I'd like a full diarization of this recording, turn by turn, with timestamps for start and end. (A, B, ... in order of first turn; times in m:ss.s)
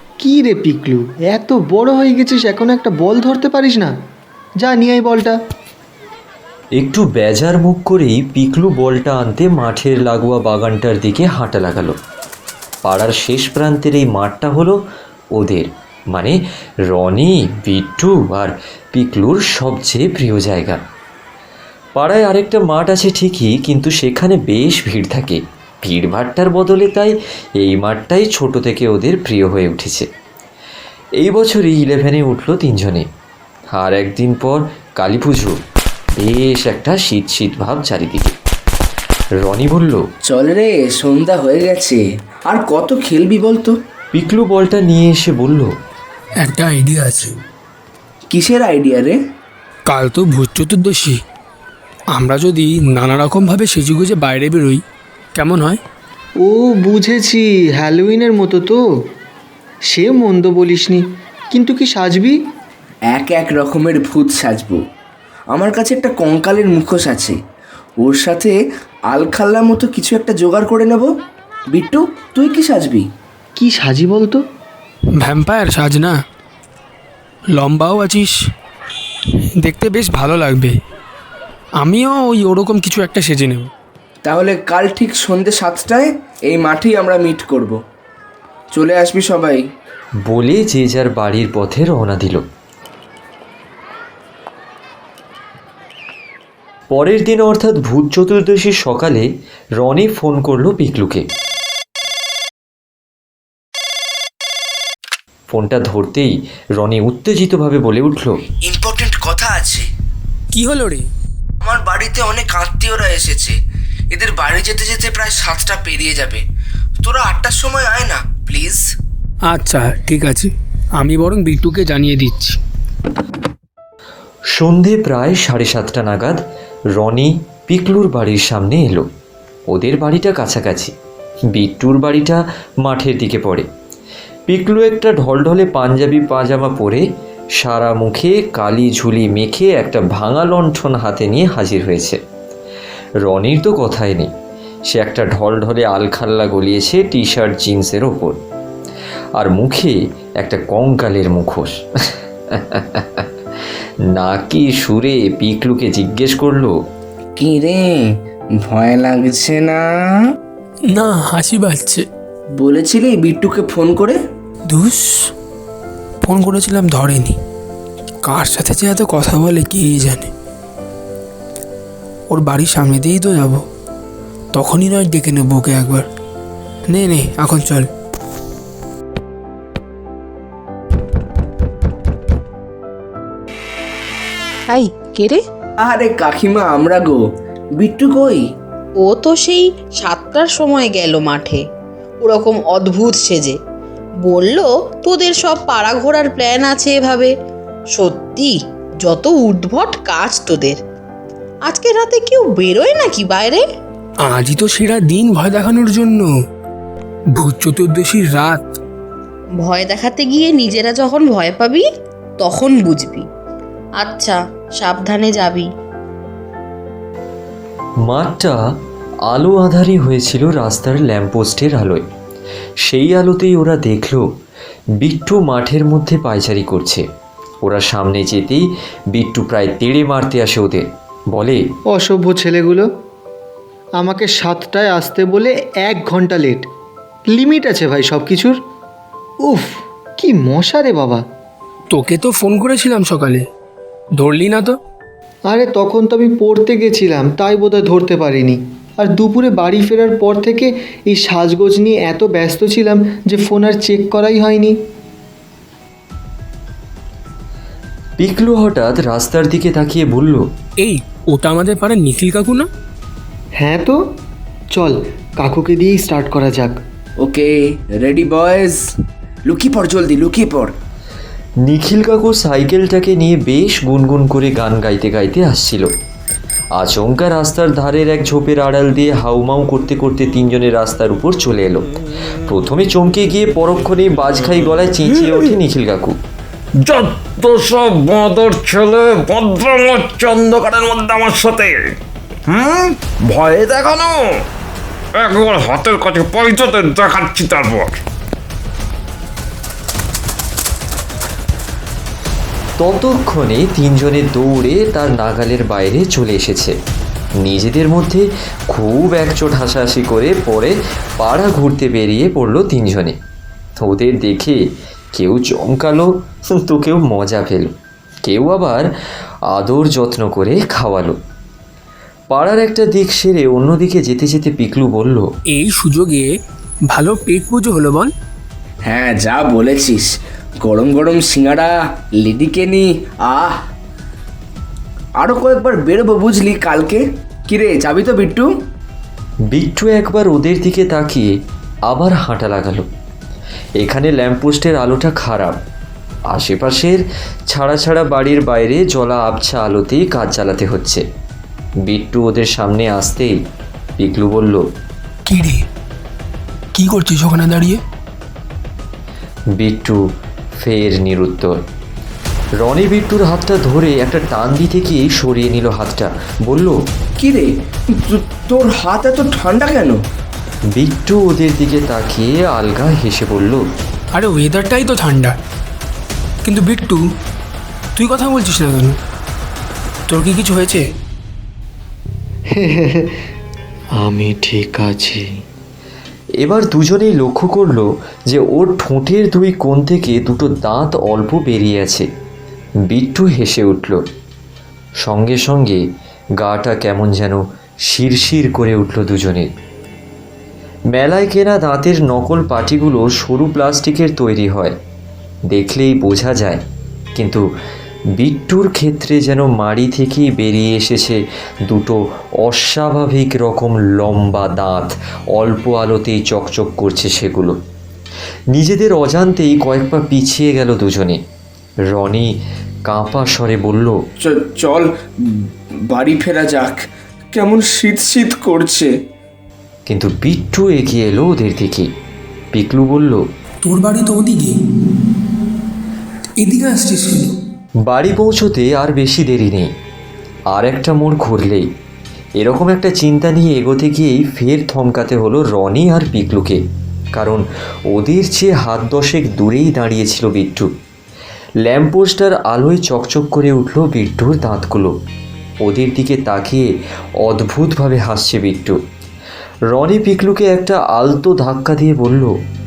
0:00.2-0:03.9 A
0:04.6-0:05.4 A
0:06.8-0:12.0 B
0:12.8-0:14.8 B
0:15.3-0:20.8 B
0:22.0-0:30.1 B
0:31.2-0:33.1 B
0:33.7-0:35.6 B
0:36.2-0:38.3 B
0:39.4-0:40.0 B
0:40.2-0:43.7 C
0:44.1-0:45.7 B
0:46.4-0:47.3 D
0:48.3-0:49.2 C
0:49.9-0:51.2 D
0:52.2-0:54.8 D
0:55.4-0:55.8 D
0:56.4-0:58.8 A
0:59.9-1:02.4 A
1:03.1-1:04.8 C
1:05.5-1:07.4 C
1:08.0-1:08.5 C
1:09.1-1:11.1 C
1:11.7-1:13.1 C
1:13.6-1:14.4 A
1:15.2-1:16.1 D
1:17.6-1:18.3 D
1:19.6-1:20.7 D
1:21.8-1:23.7 D
1:24.2-1:27.8 C
1:28.7-1:29.6 C
1:30.3-1:32.4 B
1:36.9-1:39.3 B
1:39.8-1:41.2 B
1:45.5-1:48.4 B
1:48.6-1:49.9 C
1:50.5-1:51.1 D
1:51.6-1:53.6 C
1:54.1-1:56.4 C
1:57.0-1:58.8 C
1:59.5-2:02.6 D
2:04.6-2:06.4 B
2:07.0-2:09.0 B
2:09.7-2:10.9 B
2:11.5-2:13.7 B
2:14.5-2:17.0 B
2:17.6-2:22.2 B
2:23.2-2:24.3 B
2:24.9-2:28.4 B
2:29.4-2:33.3 B
2:34.1-2:36.8 B
2:37.4-2:38.0 C
2:38.6-2:39.8 C
2:40.9-2:42.0 D
2:42.6-2:44.2 C
2:44.7-2:45.0 D
2:46.2-2:47.4 D
2:48.2-2:50.3 D
2:52.3-2:53.6 D
2:54.5-2:56.1 D
2:56.9-2:57.9 D
3:04.7-3:05.4 E
3:05.8-3:07.2 C
3:07.8-3:08.4 C
3:09.0-3:11.6 E
3:12.2-3:13.6 E
3:14.2-3:17.3 E
3:17.9-3:20.8 E
3:21.6-3:23.6 E
3:24.2-3:26.3 D
3:27.4-3:28.6 D
3:29.6-3:31.8 E
3:32.4-3:33.3 E
3:34.0-3:35.7 E
3:38.0-3:38.6 B
3:39.3-3:42.0 B
3:42.8-3:44.2 B
3:45.0-3:47.0 B
3:47.6-3:51.6 B
3:51.9-3:52.9 A
3:54.0-3:56.6 A
3:57.3-3:58.6 A
3:59.4-4:01.2 A
4:01.9-4:03.4 D
4:04.2-4:04.8 D
4:05.5-4:14.8 A
4:18.2-4:20.4 B
4:20.8-4:22.7 D
4:23.6-4:24.0 A
4:24.7-4:26.8 A
4:27.2-4:28.8 C
4:29.5-4:30.7 C
4:31.6-4:35.9 B
4:36.8-4:41.8 B
4:42.4-4:46.2 B
4:46.8-4:52.0 F
4:52.5-4:54.4 F
4:55.2-4:58.0 F
5:02.8-5:06.8 B
5:07.4-5:13.2 B
5:13.8-5:14.6 B
5:15.1-5:17.7 B
5:18.2-5:18.9 B
5:19.5-5:21.2 B
5:22.3-5:25.3 B
5:25.5-5:26.3 D
5:26.9-5:28.1 D
5:28.8-5:30.1 C
5:30.6-5:33.5 C
5:35.2-5:38.4 C
5:39.5-5:41.3 B
5:41.9-5:42.9 B
5:43.8-5:45.6 B
5:46.3-5:51.0 B
5:51.8-5:53.4 B
5:54.0-5:54.6 B
5:55.3-5:55.6 D
5:56.8-5:57.8 D
5:59.6-6:00.0 B
6:00.6-6:01.6 B
6:02.6-6:06.8 B
6:07.2-6:10.0 C
6:10.7-6:13.6 B
6:14.1-6:15.4 D
6:16.4-6:17.0 D
6:18.0-6:19.0 D
6:20.1-6:20.8 D
6:22.5-6:23.1 A
6:24.0-6:25.4 A
6:26.4-6:32.1 B
6:32.9-6:34.0 B
6:35.0-6:35.8 B
6:36.4-6:39.5 B
6:40.9-6:44.8 B
6:45.5-6:46.6 B
6:47.2-6:47.4 B
6:48.2-6:57.6 B
6:58.5-7:01.2 B
7:01.9-7:04.0 B
7:04.2-7:04.9 C
7:05.9-7:06.8 C
7:07.3-7:08.9 C
7:09.9-7:11.9 B
7:12.5-7:13.2 B
7:13.6-7:14.6 D
7:16.4-7:17.3 D
7:17.8-7:19.7 B
7:20.5-7:21.7 B
7:22.4-7:26.6 B
7:27.1-7:30.7 B
7:31.6-7:34.9 B
7:35.6-7:36.7 B
7:37.2-7:38.8 B
7:39.7-7:42.3 B